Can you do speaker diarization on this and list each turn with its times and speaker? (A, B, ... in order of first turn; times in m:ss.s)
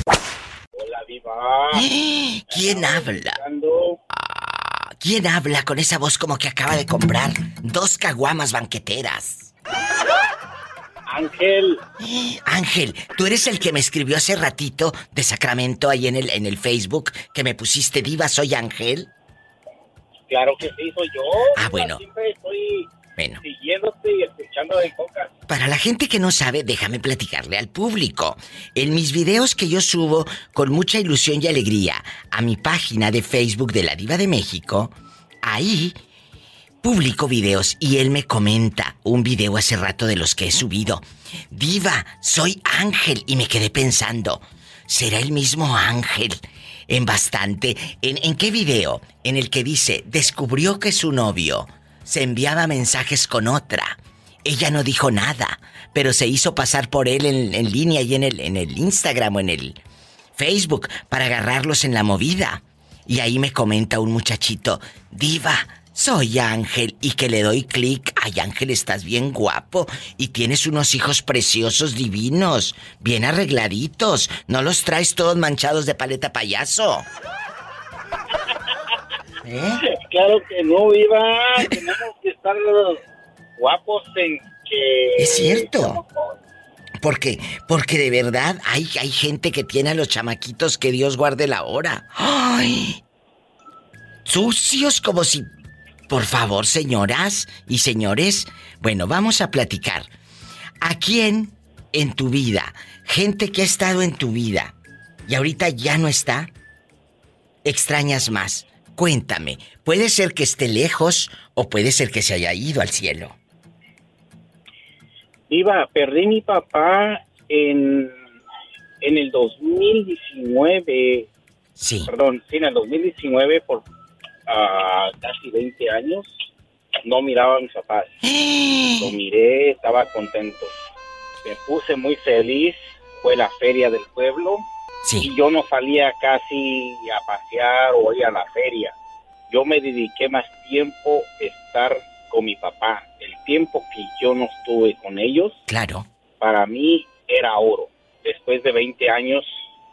0:00.8-0:01.9 A
0:01.7-0:03.4 B
0:02.5-0:04.0 A
0:04.1-0:09.5 B
0:11.1-0:11.8 A
0:12.0-0:19.1 B
0:20.3-0:22.9 A
0:21.6-0:22.0 B
0:23.4-0:25.3 A
0:25.5-0:36.0 B
0:36.8-0:46.4 B
0:46.9-0:59.8 B
1:00.4-1:17.1 B
1:19.4-1:19.8 B
1:19.8-1:23.0 A
1:23.6-1:26.3 A
1:25.2-1:26.0 B
1:27.0-1:33.0 B
1:34.3-1:35.5 B
1:36.1-1:40.1 B
1:40.8-1:44.7 B
1:45.3-1:46.5 B
1:47.6-1:53.4 B
1:55.5-1:58.2 A
1:59.0-2:01.3 A
2:01.8-2:02.1 B
2:02.1-2:03.9 A
2:04.5-2:06.4 A
2:07.0-2:08.1 A
2:08.2-2:09.1 B
2:09.0-2:10.7 A
2:11.4-2:14.6 A
2:15.0-2:15.3 B
2:15.2-2:18.9 A
2:19.5-2:25.6 A
2:25.7-2:26.1 B
2:26.4-2:29.6 A